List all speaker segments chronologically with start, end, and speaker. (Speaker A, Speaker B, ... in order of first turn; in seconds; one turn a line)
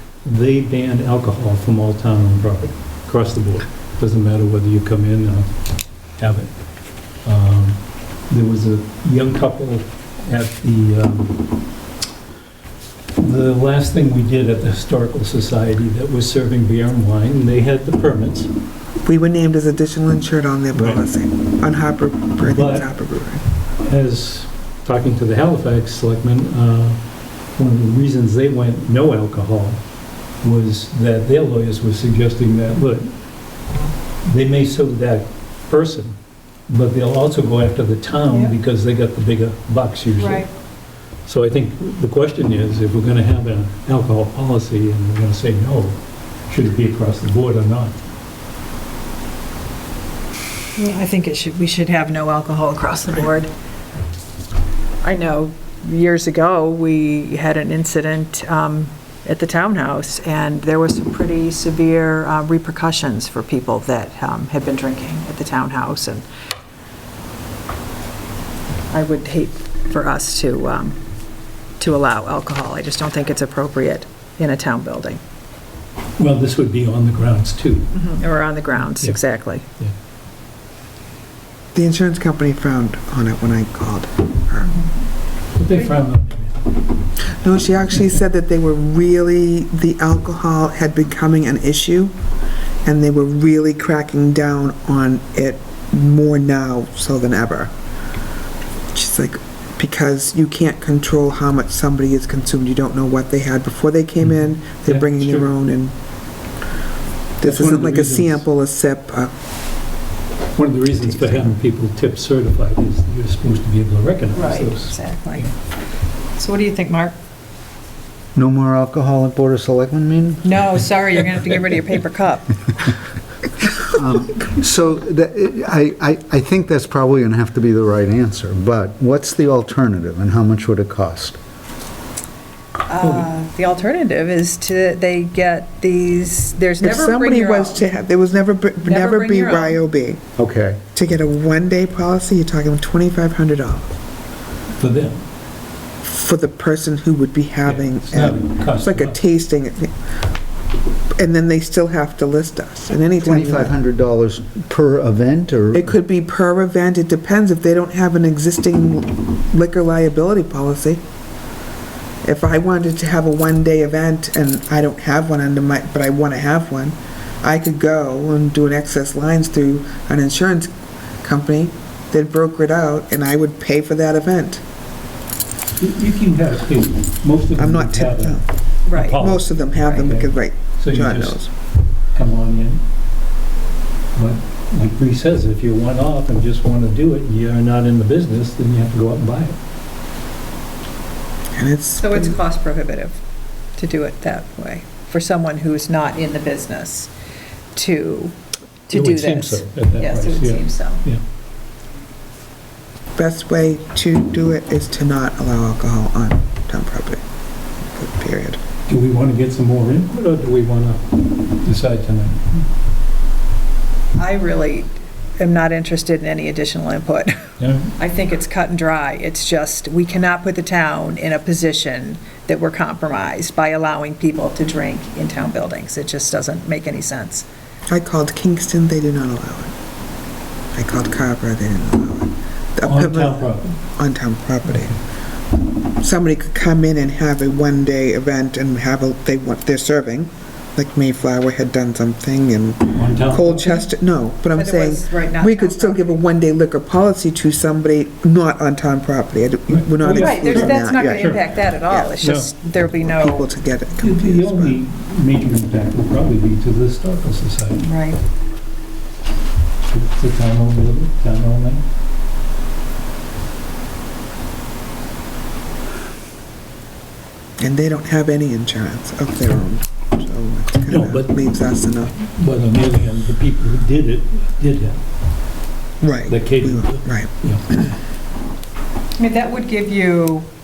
Speaker A: 0.2-5.5
Speaker A: 6.2-6.5
Speaker A: 7.2-11.4
Speaker A: 13.2-18.5
Speaker B: 19.0-23.4
Speaker A: 20.7-21.1
Speaker A: 22.4-22.9
Speaker A: 23.8-27.0
Speaker A: 27.6-29.8
Speaker A: 30.4-33.1
Speaker A: 34.2-36.2
Speaker A: 36.7-40.5
Speaker C: 40.1-40.5
Speaker A: 41.2-48.0
Speaker C: 50.8-53.5
Speaker C: 55.0-66.2
Speaker C: 68.9-71.0
Speaker C: 71.8-75.2
Speaker A: 76.2-77.9
Speaker C: 77.9-79.6
Speaker A: 78.9-79.2
Speaker B: 81.7-84.7
Speaker A: 85.5-86.7
Speaker B: 87.4-92.1
Speaker B: 92.8-97.7
Speaker B: 98.9-105.9
Speaker A: 104.2-105.5
Speaker A: 107.4-108.5
Speaker B: 107.4-109.3
Speaker A: 110.5-115.5
Speaker B: 111.2-111.5
Speaker C: 114.3-115.5
Speaker C: 116.3-117.2
Speaker D: 118.3-120.5
Speaker C: 120.4-122.5
Speaker D: 123.8-131.4
Speaker C: 132.9-137.8
Speaker B: 136.8-140.3
Speaker C: 138.8-139.8
Speaker D: 140.4-140.8
Speaker B: 140.9-144.0
Speaker A: 144.8-145.2
Speaker B: 146.0-149.9
Speaker A: 147.6-149.2
Speaker B: 151.2-153.8
Speaker D: 153.2-155.9
Speaker B: 155.7-161.0
Speaker B: 162.2-170.7
Speaker B: 171.2-174.6
Speaker A: 175.8-181.5
Speaker B: 177.6-178.4
Speaker C: 178.8-179.2
Speaker B: 179.2-181.5
Speaker A: 182.1-182.8
Speaker A: 184.1-189.6
Speaker B: 191.6-192.4
Speaker C: 192.0-193.2
Speaker C: 193.8-197.1
Speaker C: 197.7-198.3
Speaker C: 198.9-201.0
Speaker A: 198.9-201.2
Speaker B: 203.1-207.2
Speaker B: 207.9-208.6
Speaker A: 208.9-212.6
Speaker C: 214.2-227.4
Speaker A: 217.6-217.9
Speaker B: 227.9-229.7
Speaker B: 230.7-234.9
Speaker A: 232.8-233.7
Speaker A: 234.6-234.9
Speaker B: 236.0-252.1
Speaker A: 242.9-243.7
Speaker C: 244.5-246.2
Speaker A: 249.7-251.6
Speaker C: 250.1-253.4
Speaker A: 252.2-252.5
Speaker B: 253.0-254.8
Speaker A: 254.0-257.8
Speaker C: 257.8-258.2
Speaker A: 259.9-261.8
Speaker B: 267.6-272.1
Speaker A: 270.9-271.6
Speaker A: 272.1-275.0
Speaker B: 276.0-277.9
Speaker A: 276.3-277.6
Speaker C: 279.2-280.5